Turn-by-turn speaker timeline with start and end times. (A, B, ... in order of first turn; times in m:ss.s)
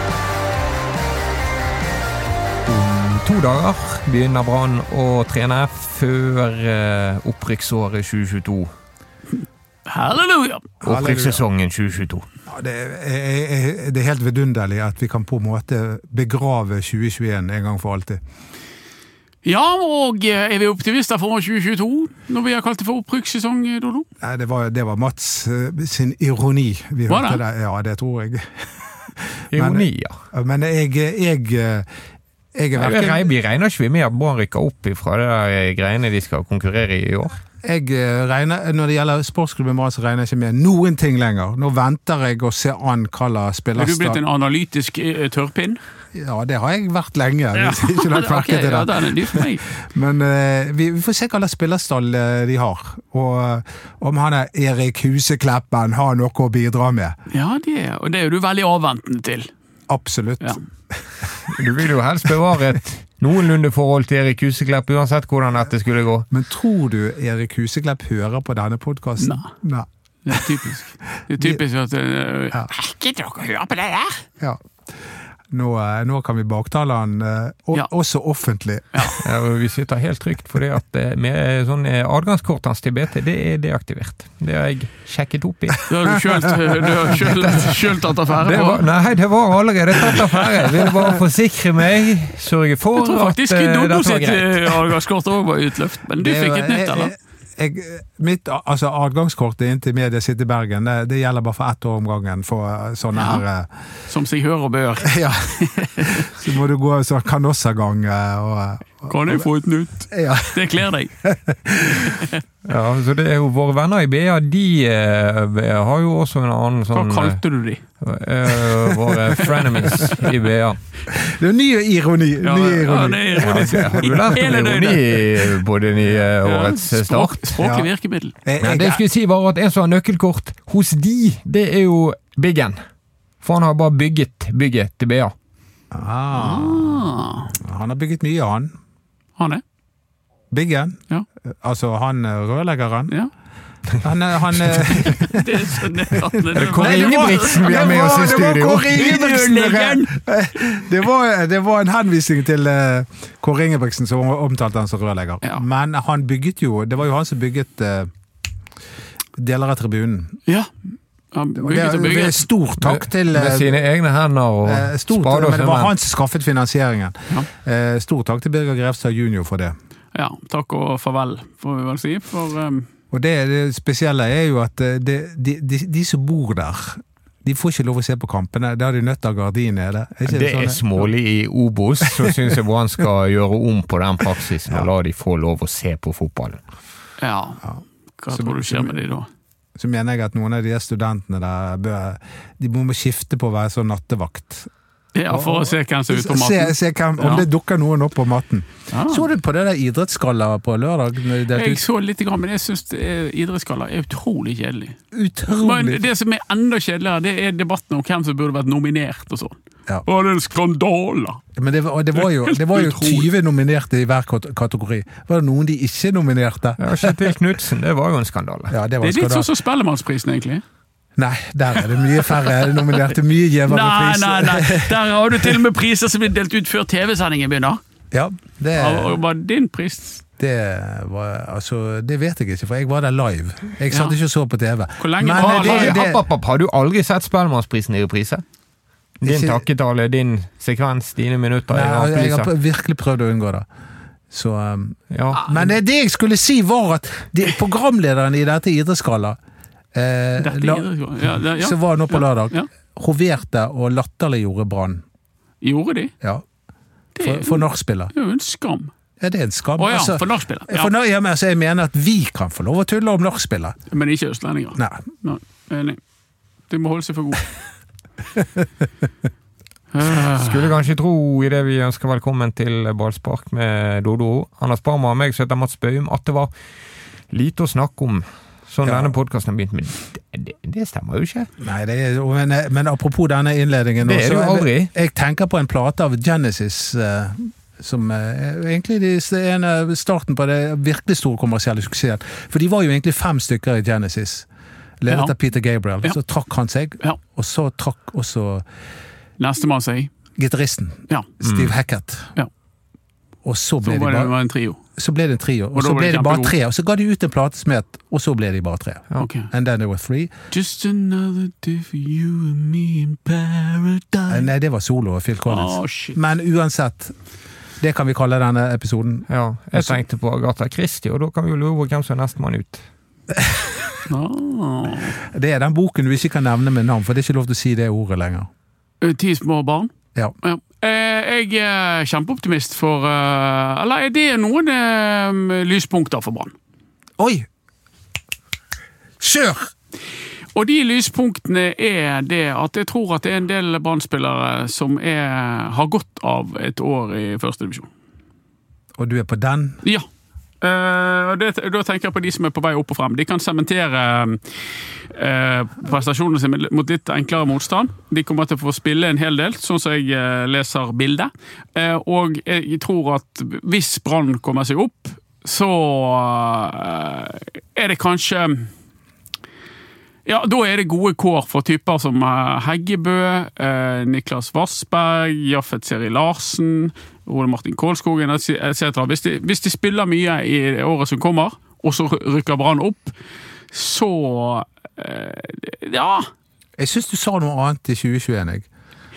0:02.6-0:08.7 A
0:09.8-0:10.7 B
0:10.8-0:11.4 C
0:10.8-0:12.2 A
0:12.5-0:18.2 C
0:19.4-0:24.1 B
0:24.2-0:31.9 C
0:27.1-0:27.4 B
0:29.5-0:30.2 A
0:32.5-0:33.3 C
0:32.8-0:37.4 A
0:37.6-0:44.2 C
0:43.8-0:45.8 B
0:46.1-0:57.2 C
0:47.5-0:49.6 B
0:57.3-0:59.5 B
0:59.9-1:01.2 C
1:01.5-1:06.3 A
1:06.3-1:10.4 C
1:09.2-1:09.5 B
1:10.2-1:14.2 B
1:15.5-1:19.2 C
1:18.9-1:19.2 B
1:19.2-1:25.8 A
1:25.9-1:28.8 B
1:27.1-1:34.9 A
1:32.9-1:37.1 B
1:36.2-1:43.7 C
1:43.2-1:43.4 B
1:44.1-1:46.3 B
1:45.0-1:49.5 C
1:49.1-1:51.1 B
1:50.1-1:50.7 C
1:51.2-1:52.2 C
1:52.0-1:52.4 B
1:52.6-1:57.4 A
1:56.9-1:57.8 B
1:58.0-2:00.8 A
1:59.4-2:00.2 B
2:01.1-2:04.4 C
2:02.4-2:05.5 B
2:03.4-2:07.5 A
2:06.4-2:08.3 B
2:07.6-2:07.9 C
2:08.4-2:09.0 C
2:08.6-2:12.8 A
2:13.4-2:15.3 A
2:15.9-2:18.8 C
2:16.3-2:17.5 B
2:19.4-2:19.6 B
2:20.5-2:23.1 C
2:24.0-2:38.1 C
2:24.9-2:30.2 B
2:26.5-2:29.2 A
2:39.4-2:40.4 C
2:40.4-2:40.7 B
2:41.3-2:42.4 B
2:41.5-2:43.7 C
2:42.8-2:45.9 A
2:44.6-2:49.7 C
2:50.1-2:52.9 B
2:53.1-3:01.1 C
3:00.2-3:06.6 A
3:02.0-3:02.5 C
3:07.2-3:07.6 B
3:08.2-3:09.3 B
3:08.3-3:09.0 C
3:09.8-3:14.7 C
3:15.1-3:17.5 B
3:15.3-3:21.8 C
3:18.9-3:19.2 B
3:21.5-3:25.0 B
3:25.1-3:26.0 C
3:25.5-3:31.4 B
3:31.6-3:37.2 C
3:32.2-3:33.3 B
3:36.8-3:38.8 A
3:38.7-3:39.5 C
3:39.0-3:40.6 B
3:41.2-3:45.5 C
3:43.7-3:47.8 B
3:48.1-3:49.2 C
3:48.7-3:50.2 B
3:50.4-3:56.2 C
3:55.0-3:56.0 B
3:55.4-3:58.4 A
3:59.2-4:02.5 A
3:59.2-3:59.6 C
4:01.7-4:03.6 C
4:04.3-4:09.4 C
4:05.1-4:05.4 A
4:09.9-4:10.9 C
4:10.4-4:12.7 B
4:11.5-4:15.0 C
4:15.6-4:16.1 B
4:17.2-4:18.9 B
4:17.2-4:18.1 C
4:19.2-4:23.8 C
4:19.8-4:20.9 B
4:23.9-4:26.0 B
4:24.8-4:25.0 C
4:26.7-4:27.4 B
4:29.9-4:30.7 B
4:30.1-4:36.5 A
4:37.3-4:41.5 A
4:38.8-4:39.1 C
4:41.6-4:54.5 C
4:44.0-4:44.9 A
4:55.0-4:58.6 C
4:59.4-5:00.1 B
5:00.4-5:02.3 C
5:01.4-5:01.7 A
5:03.4-5:04.3 C
5:03.8-5:04.8 B
5:05.0-5:10.3 C
5:05.7-5:06.5 B
5:09.2-5:09.5 B
5:10.5-5:14.5 B
5:14.3-5:17.1 C
5:15.5-5:16.2 B
5:17.8-5:20.0 C
5:19.3-5:22.8 A
5:24.1-5:25.2 B
5:25.2-5:28.5 C
5:29.0-5:36.5 B
5:37.2-5:37.5 C
5:39.2-5:39.7 C
5:40.5-5:47.9 B
5:49.0-5:49.8 C
5:50.6-5:54.4 B
5:55.1-6:08.7 B
6:10.2-6:23.1 B
6:23.7-6:26.3 B
6:26.8-6:28.7 C